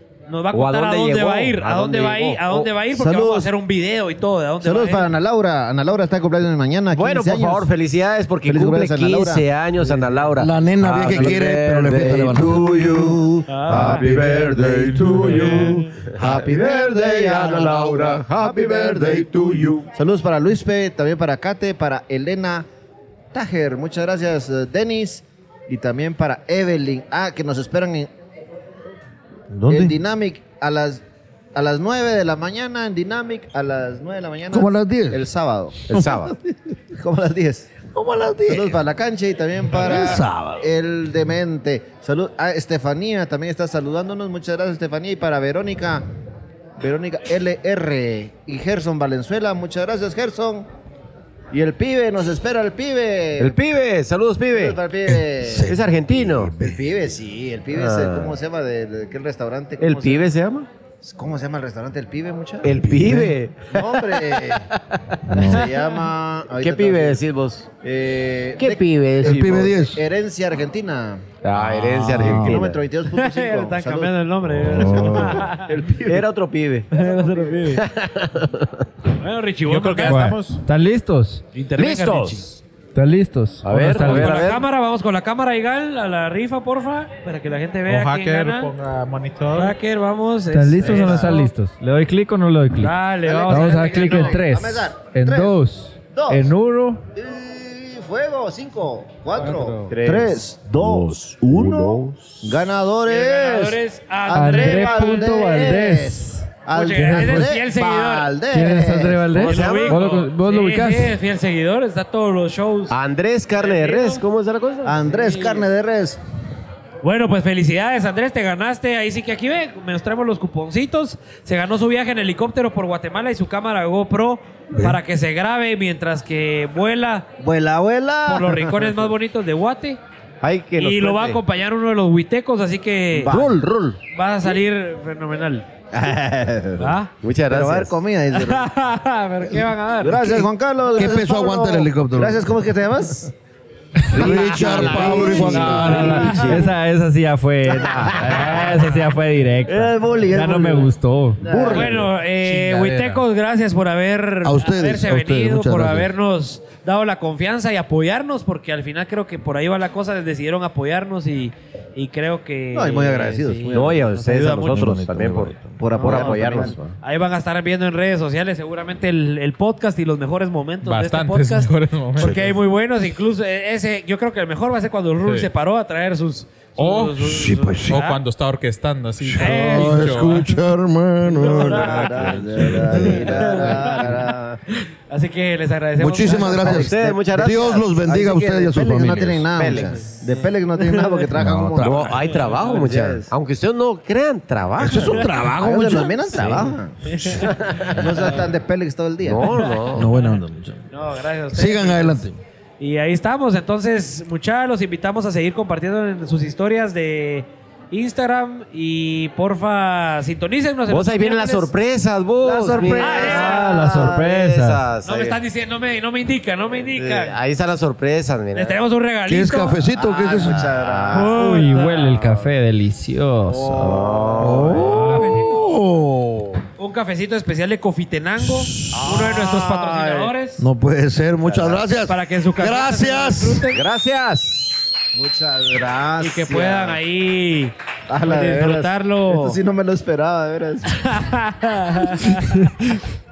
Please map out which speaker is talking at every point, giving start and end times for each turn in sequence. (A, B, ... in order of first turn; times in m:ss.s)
0:00.3-0:05.0 A
0:00.5-0:02.7 B
0:02.9-0:03.5 C
0:04.6-0:07.7 C
0:06.9-0:12.9 B
0:08.4-0:09.4 C
0:10.4-0:13.1 D
0:12.4-0:19.3 C
0:13.5-0:14.1 A
0:13.7-0:19.8 D
0:13.8-0:19.3 B
0:15.3-0:15.9 A
0:19.9-0:22.6 C
0:23.3-0:28.1 C
0:29.5-0:30.0 D
0:29.7-0:31.0 C
0:31.5-0:36.0 C
0:34.5-0:35.2 D
0:35.9-0:36.3 B
0:36.9-0:37.7 C
0:37.9-0:38.8 D
0:38.5-0:46.0 C
0:39.7-0:40.7 D
0:46.8-0:50.7 C
0:51.5-0:53.6 C
0:53.4-0:54.8 B
0:54.5-0:55.7 C
0:55.1-0:56.8 D
0:55.6-0:56.5 B
0:56.5-1:00.3 C
0:57.7-0:58.4 B
0:59.8-1:00.7 B
1:01.0-1:03.2 C
1:02.6-1:03.7 B
1:02.7-1:03.3 D
1:03.7-1:04.7 C
1:04.4-1:04.7 B
1:05.2-1:05.7 D
1:05.3-1:07.2 C
1:06.6-1:07.7 B
1:07.8-1:11.2 C
1:08.6-1:09.8 B
1:09.2-1:10.0 D
1:11.4-1:12.8 B
1:11.6-1:12.6 D
1:12.0-1:14.1 C
1:13.1-1:15.6 A
1:14.6-1:15.5 D
1:14.7-1:16.3 C
1:16.0-1:16.9 B
1:16.9-1:17.8 A
1:16.9-1:17.6 C
1:17.7-1:18.8 B
1:19.2-1:20.3 A
1:19.6-1:20.6 E
1:20.0-1:21.4 F
1:21.5-1:22.5 A
1:21.8-1:22.6 B
1:22.9-1:24.5 F
1:23.6-1:24.6 B
1:23.7-1:28.7 A
1:27.9-1:29.7 E
1:29.5-1:31.5 A
1:30.5-1:37.0 F
1:30.8-1:31.4 C
1:32.8-1:34.4 A
1:33.2-1:36.5 C
1:37.1-1:49.4 C
1:39.4-1:39.9 A
1:39.9-1:42.6 B
1:43.1-1:45.5 A
1:44.3-1:47.6 F
1:46.7-1:48.3 A
1:48.5-1:51.1 F
1:49.3-1:50.0 B
1:49.3-1:53.0 A
1:52.9-1:55.1 B
1:53.6-1:54.2 A
1:54.8-1:56.2 C
1:55.1-1:55.6 A
1:57.0-2:07.3 A
2:04.7-2:05.0 D
2:07.4-2:09.0 C
2:08.2-2:10.0 A
2:10.4-2:11.4 B
2:10.8-2:13.3 A
2:13.2-2:13.7 C
2:13.2-2:14.0 B
2:14.1-2:15.6 A
2:15.9-2:17.0 C
2:16.8-2:17.1 A
2:17.2-2:18.0 B
2:17.5-2:18.7 C
2:18.3-2:20.5 A
2:19.5-2:23.3 C
2:20.9-2:22.6 D
2:24.1-2:26.5 D
2:24.1-2:26.6 B
2:24.1-2:26.7 C
2:25.6-2:31.4 F
2:27.7-2:28.8 C
2:29.6-2:32.0 C
2:31.4-2:32.1 B
2:31.7-2:44.9 A
2:32.4-2:33.2 E
2:34.4-2:36.1 D
2:42.7-2:44.0 C
2:43.7-2:47.0 B
2:44.6-2:45.9 D
2:45.8-2:46.8 C
2:45.9-2:58.2 A
2:50.8-2:52.5 E
2:55.2-2:55.5 E
2:56.8-2:57.3 E
2:57.2-2:58.0 D
2:57.9-3:00.5 E
2:59.2-3:03.2 D
2:59.4-3:00.4 A
3:01.3-3:04.6 C
3:01.3-3:04.2 A
3:02.6-3:02.9 E
3:05.1-3:06.8 A
3:06.0-3:09.6 D
3:06.3-3:13.3 C
3:06.5-3:07.9 B
3:09.5-3:10.1 B
3:11.3-3:12.3 D
3:11.8-3:15.2 B
3:12.3-3:12.8 A
3:14.8-3:16.3 D
3:15.0-3:15.3 A
3:15.6-3:17.2 C
3:16.3-3:16.7 B
3:17.0-3:17.5 A
3:17.4-3:18.0 B
3:17.9-3:19.5 C
3:19.2-3:20.1 B
3:19.9-3:20.8 D
3:20.9-3:22.3 A
3:21.5-3:22.4 D
3:22.8-3:31.7 A
3:30.9-3:35.4 B
3:32.4-3:34.3 C
3:33.0-3:33.8 A
3:33.4-3:34.8 F
3:35.0-3:37.4 A
3:36.9-3:38.8 B
3:38.5-3:39.8 A
3:39.3-3:40.8 D
3:39.9-3:41.7 C
3:40.7-3:41.4 B
3:41.1-3:42.5 A
3:41.3-3:44.1 F
3:43.5-3:44.7 C
3:43.6-3:45.0 B
3:44.4-3:46.6 D
3:44.8-3:45.6 A
3:46.8-3:50.7 A
3:48.9-3:49.8 B
3:49.0-3:50.3 C
3:50.6-3:53.6 D
3:51.5-3:51.8 B
3:52.0-3:53.8 A
3:53.7-3:54.8 B
3:55.1-3:57.0 C
3:56.2-3:59.6 A
3:58.1-4:01.1 C
4:01.0-4:02.7 A